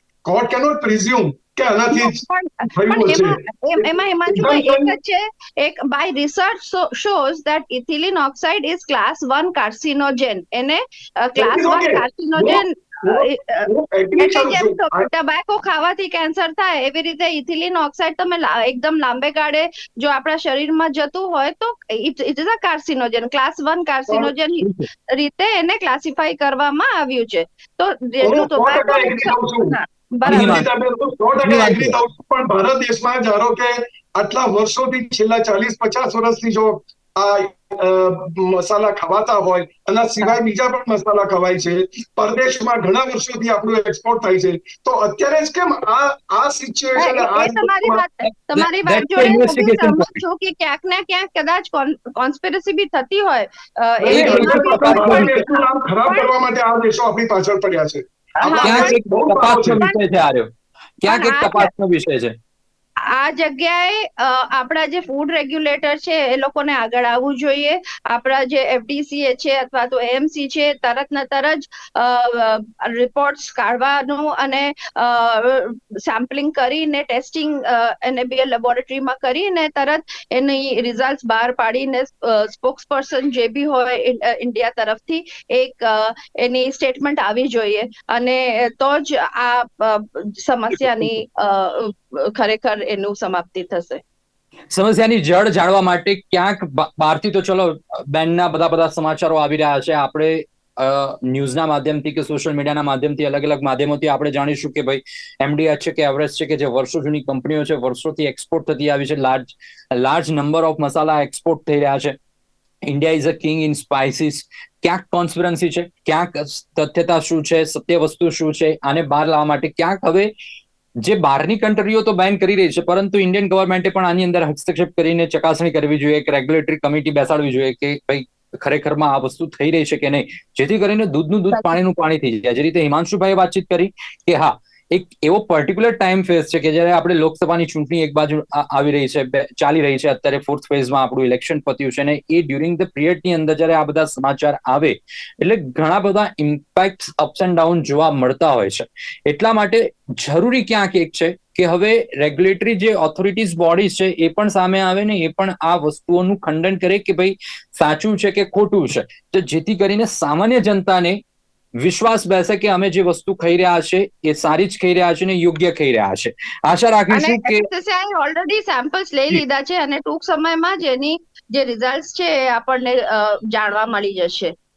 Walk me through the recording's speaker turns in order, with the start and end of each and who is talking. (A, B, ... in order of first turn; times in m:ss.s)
0:00.2-0:05.0 A
0:01.9-0:30.6 B
0:11.4-0:15.1 A
0:24.6-0:24.9 C
0:28.2-0:48.0 A
0:30.2-0:30.7 C
0:31.4-0:32.0 C
0:47.0-0:56.3 B
0:48.2-0:50.2 C
0:54.0-0:59.8 A
0:54.1-0:55.3 C
0:58.4-0:59.0 B
0:58.6-1:02.3 C
0:59.7-1:00.0 B
1:01.1-1:01.7 B
1:03.1-1:34.0 B
1:34.7-1:52.2 C
1:52.9-2:00.3 C
2:01.0-2:41.2 C
2:11.5-2:11.8 B
2:41.8-2:47.7 C
2:47.1-2:54.5 B